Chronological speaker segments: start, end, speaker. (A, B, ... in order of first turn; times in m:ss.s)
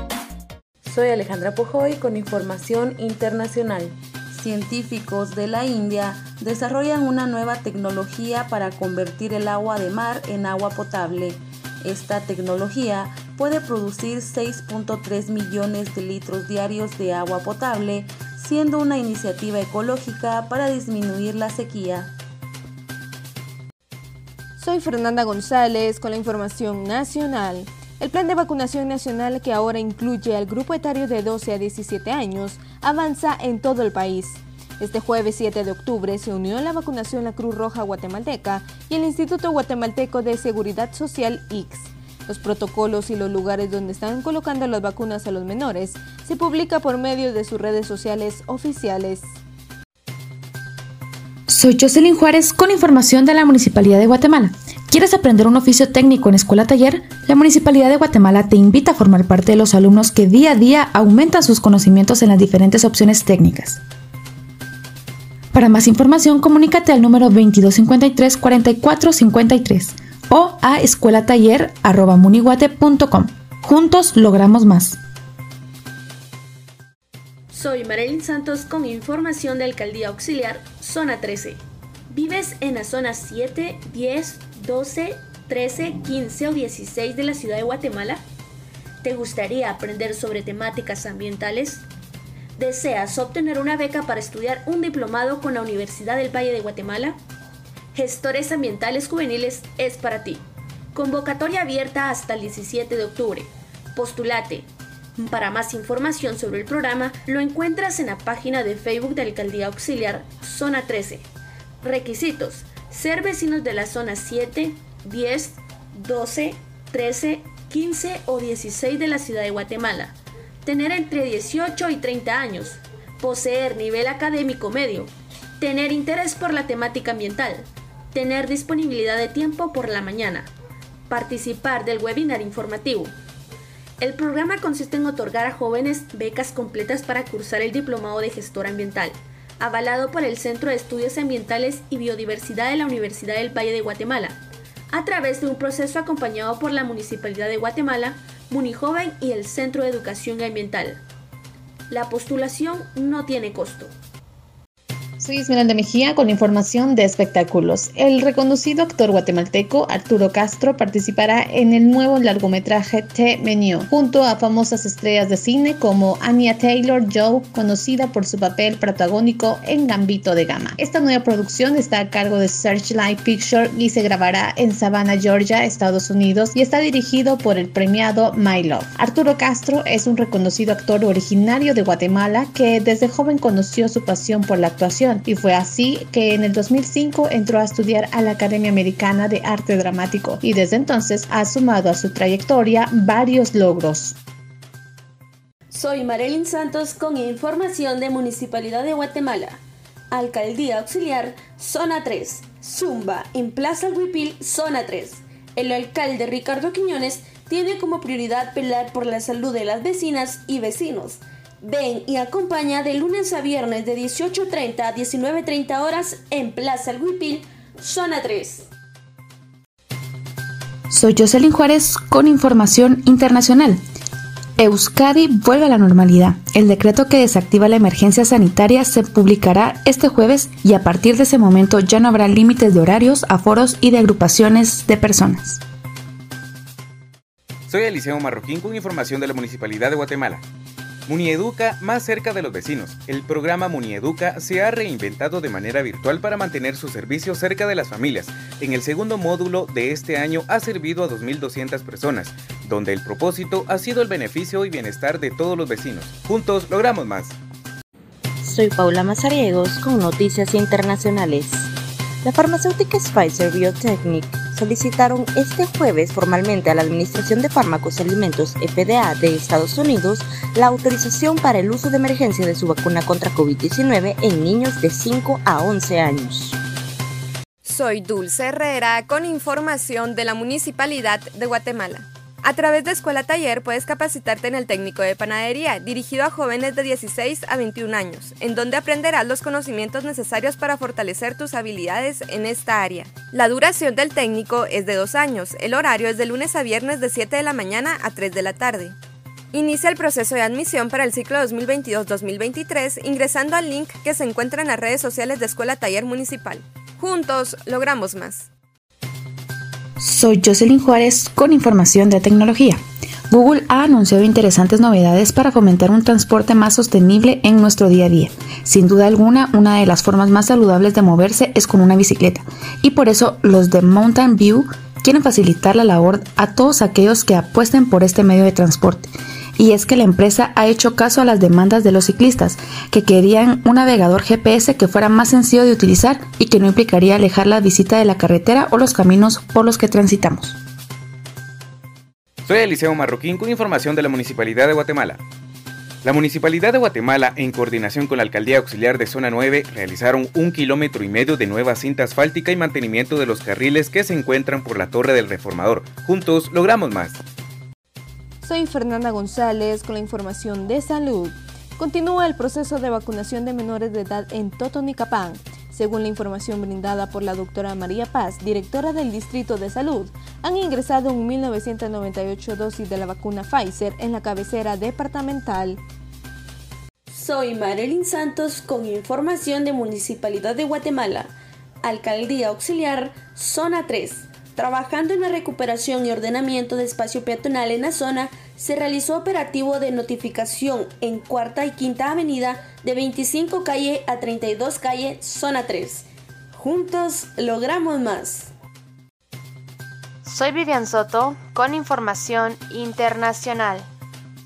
0:00.8-0:22.1 A
0:24.6-0:49.3 B
0:51.5-1:03.8 C
1:05.5-1:15.0 C
1:17.5-1:28.2 D
1:29.0-1:31.9 D
1:32.6-1:37.2 D
1:37.9-1:51.3 D
1:51.8-2:10.5 D
2:11.1-2:13.2 D
2:14.0-2:31.0 D
2:31.9-2:33.9 D
2:35.2-3:14.2 E
3:15.7-3:38.7 D
3:40.9-3:43.8 C
3:44.6-3:55.6 C
3:57.7-4:00.4 F
4:01.1-4:17.4 F
4:18.4-4:21.7 G
4:22.2-4:36.6 G
4:37.6-4:59.0 H
4:59.5-5:08.5 H
5:10.0-5:40.6 C
5:42.4-5:45.2 F
5:46.0-5:57.2 F
5:58.4-6:15.8 B
6:17.1-6:38.5 D
6:40.2-6:43.9 I